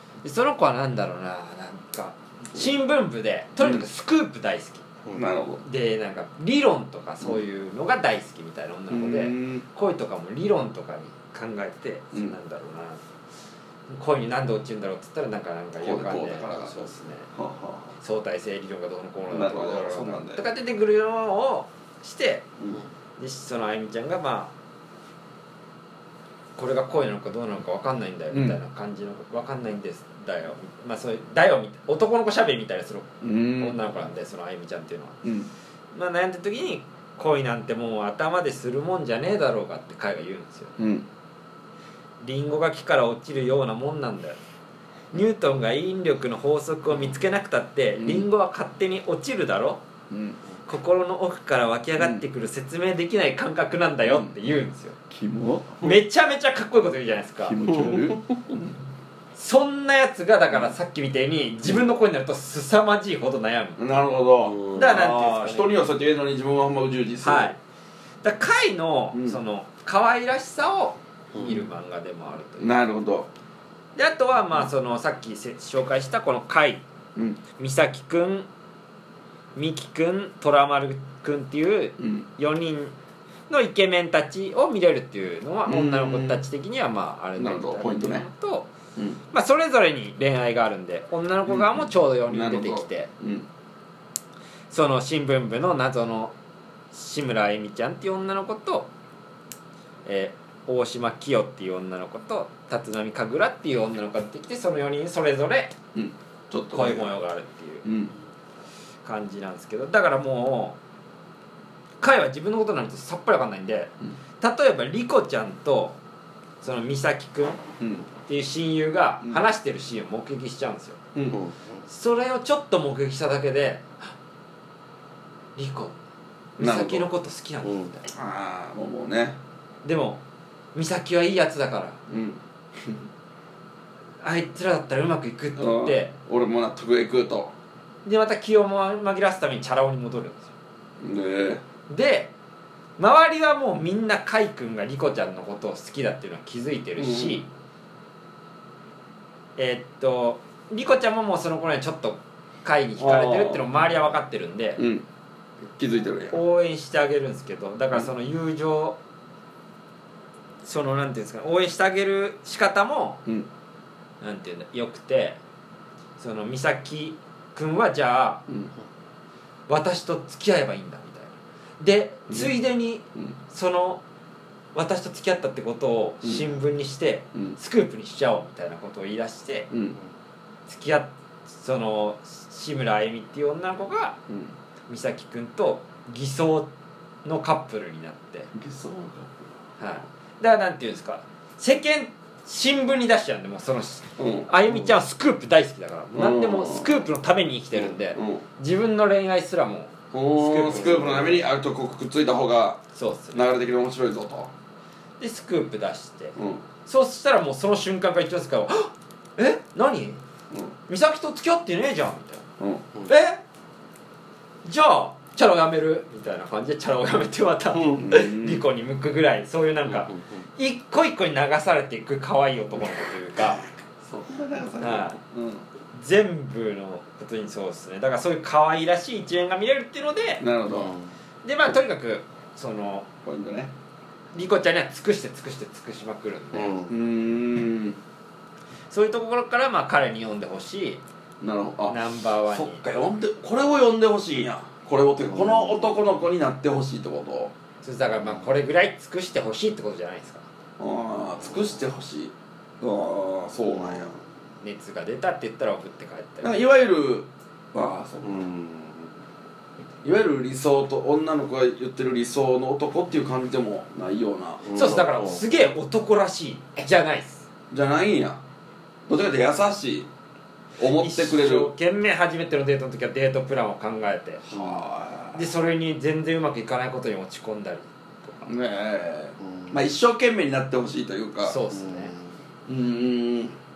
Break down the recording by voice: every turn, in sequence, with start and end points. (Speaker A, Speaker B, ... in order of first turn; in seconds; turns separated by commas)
Speaker A: 0.2-4.8, Speaker B: 3.6-3.9, Speaker B: 5.1-5.6, Speaker A: 5.6-13.0, Speaker B: 8.9-9.7, Speaker A: 13.9-17.3, Speaker B: 15.8-17.9, Speaker A: 18.0-22.5, Speaker B: 19.3-20.4, Speaker A: 23.2-24.5, Speaker A: 26.6-35.2, Speaker B: 28.3-28.6, Speaker B: 33.2-33.8, Speaker B: 35.2-35.5, Speaker A: 35.9-40.8, Speaker B: 40.8-41.1, Speaker A: 42.2-44.4, Speaker A: 45.1-49.8, Speaker B: 48.0-48.3, Speaker B: 50.1-50.4, Speaker A: 50.7-55.0, Speaker B: 52.0-52.2, Speaker B: 54.0-54.4, Speaker B: 55.1-55.9, Speaker A: 55.8-57.9, Speaker B: 57.4-58.8, Speaker A: 59.4-63.8, Speaker B: 63.8-67.5, Speaker C: 64.4-64.8, Speaker A: 64.7-65.7, Speaker A: 67.2-67.6, Speaker A: 68.2-72.8, Speaker B: 69.1-69.4, Speaker B: 72.6-73.3, Speaker A: 74.0-76.8, Speaker B: 77.2-77.4, Speaker A: 77.6-78.5, Speaker A: 79.5-82.9, Speaker B: 82.0-82.3, Speaker A: 83.5-88.7, Speaker B: 85.7-86.4, Speaker B: 87.4-88.3, Speaker A: 89.3-93.1, Speaker B: 91.5-93.5, Speaker A: 94.7-96.3, Speaker A: 96.9-98.9, Speaker A: 100.1-105.8, Speaker B: 105.9-107.2, Speaker A: 106.7-107.8, Speaker B: 107.8-108.1, Speaker A: 109.0-110.8, Speaker A: 112.0-116.0, Speaker A: 116.6-117.6, Speaker B: 117.8-118.1, Speaker A: 118.3-121.0, Speaker B: 121.2-121.4, Speaker A: 121.9-124.1, Speaker A: 125.6-126.0, Speaker A: 126.6-128.1, Speaker B: 126.6-127.1, Speaker C: 127.6-127.9, Speaker B: 128.1-129.4, Speaker A: 129.8-130.2, Speaker A: 130.8-132.0, Speaker B: 132.1-133.0, Speaker A: 134.2-136.1, Speaker B: 135.6-137.5, Speaker A: 138.1-140.5, Speaker B: 141.0-141.6, Speaker A: 141.9-142.3, Speaker A: 143.0-147.5, Speaker B: 147.0-147.4, Speaker A: 149.6-154.8, Speaker B: 153.0-153.8, Speaker B: 154.8-155.1, Speaker B: 155.8-156.4, Speaker A: 156.3-159.0, Speaker A: 160.6-163.2, Speaker A: 164.2-165.4, Speaker A: 166.2-168.4, Speaker A: 169.7-174.0, Speaker A: 174.8-179.7, Speaker B: 179.7-180.0, Speaker A: 180.7-184.2, Speaker A: 184.9-186.7, Speaker A: 187.2-188.5, Speaker B: 188.5-189.5, Speaker A: 189.8-201.4, Speaker B: 194.2-194.5, Speaker B: 196.2-197.0, Speaker B: 198.1-198.4, Speaker B: 200.1-202.8, Speaker A: 202.9-203.5, Speaker B: 203.3-204.5, Speaker A: 205.2-210.2, Speaker B: 206.4-206.6, Speaker A: 210.9-212.5, Speaker B: 212.6-213.4, Speaker A: 214.7-223.7, Speaker C: 217.7-218.1, Speaker B: 218.0-218.6, Speaker C: 219.9-220.2, Speaker B: 224.0-225.6, Speaker A: 224.8-225.2, Speaker A: 225.9-230.4, Speaker B: 230.4-230.9, Speaker C: 230.7-231.1, Speaker A: 231.4-233.1, Speaker B: 233.2-233.7, Speaker A: 234.3-236.8, Speaker C: 236.5-236.9, Speaker B: 236.9-238.0, Speaker A: 238.9-241.0, Speaker B: 241.4-247.5, Speaker A: 241.9-242.8, Speaker C: 245.3-245.8, Speaker A: 247.8-250.4, Speaker B: 250.8-254.2, Speaker A: 254.6-256.5, Speaker B: 256.4-258.4, Speaker C: 258.2-259.1, Speaker B: 260.0-264.7, Speaker C: 264.6-265.4, Speaker A: 264.7-267.4, Speaker B: 267.7-268.4, Speaker B: 269.1-270.1, Speaker B: 270.8-271.7, Speaker A: 271.0-274.4, Speaker B: 274.5-275.4, Speaker C: 274.5-274.8, Speaker A: 275.3-278.5, Speaker B: 278.4-281.6, Speaker C: 279.4-279.8, Speaker A: 281.4-282.1, Speaker C: 281.7-282.3, Speaker B: 282.7-283.6